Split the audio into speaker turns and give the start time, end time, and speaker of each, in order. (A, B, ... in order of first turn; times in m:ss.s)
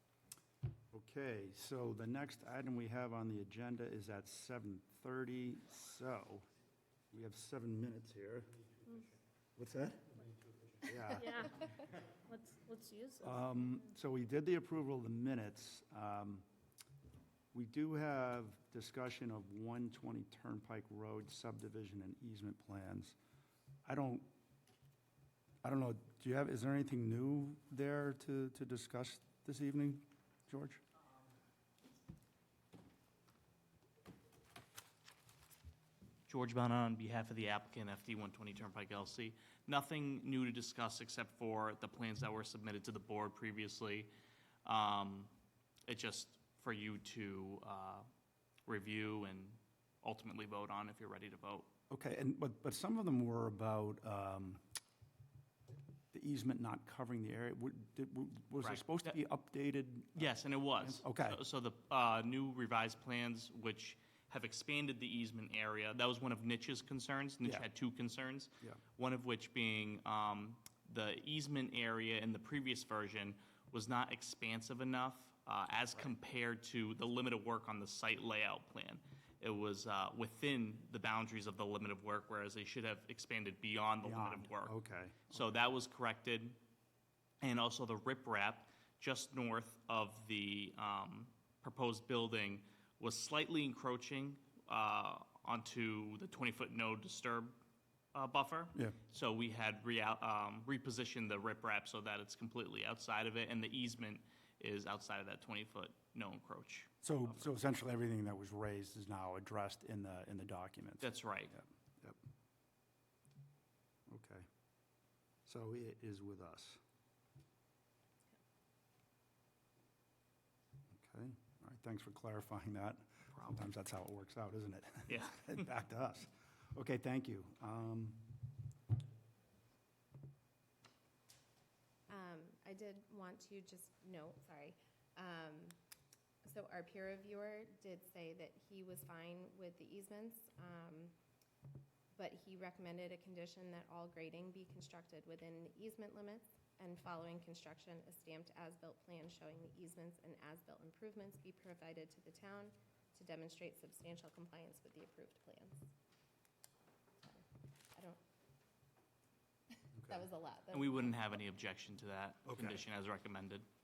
0:00.9-0:06.4 A
0:07.1-0:08.5 A
0:08.9-0:09.2 B
0:09.6-0:10.1 A
0:10.8-0:11.4 A
0:11.1-0:11.7 B
0:12.3-0:13.5 B
0:13.2-0:16.4 A
0:17.5-0:23.1 A
0:23.8-0:24.3 A
0:25.6-0:30.8 A
0:36.3-0:44.1 C
0:44.6-0:45.3 C
0:45.9-0:48.1 C
0:48.6-0:51.7 C
0:51.9-0:54.6 A
0:56.1-1:01.4 A
0:58.6-0:59.1 C
1:00.2-1:24.7 C
1:24.0-1:25.4 A
1:25.3-1:26.6 C
1:27.4-1:37.6 C
1:38.1-1:47.0 C
1:47.0-1:52.2 A
1:51.0-1:51.5 C
1:54.1-1:54.4 A
1:55.4-1:56.8 A
2:01.0-2:08.4 A
2:03.3-2:03.6 C
2:05.1-2:05.7 C
2:12.1-2:15.8 D
2:16.4-2:21.1 D
2:22.1-2:35.8 D
2:37.2-2:38.2 D
2:39.7-2:41.4 D
2:40.0-2:40.2 A
2:40.7-2:43.6 C
2:42.4-2:42.8 A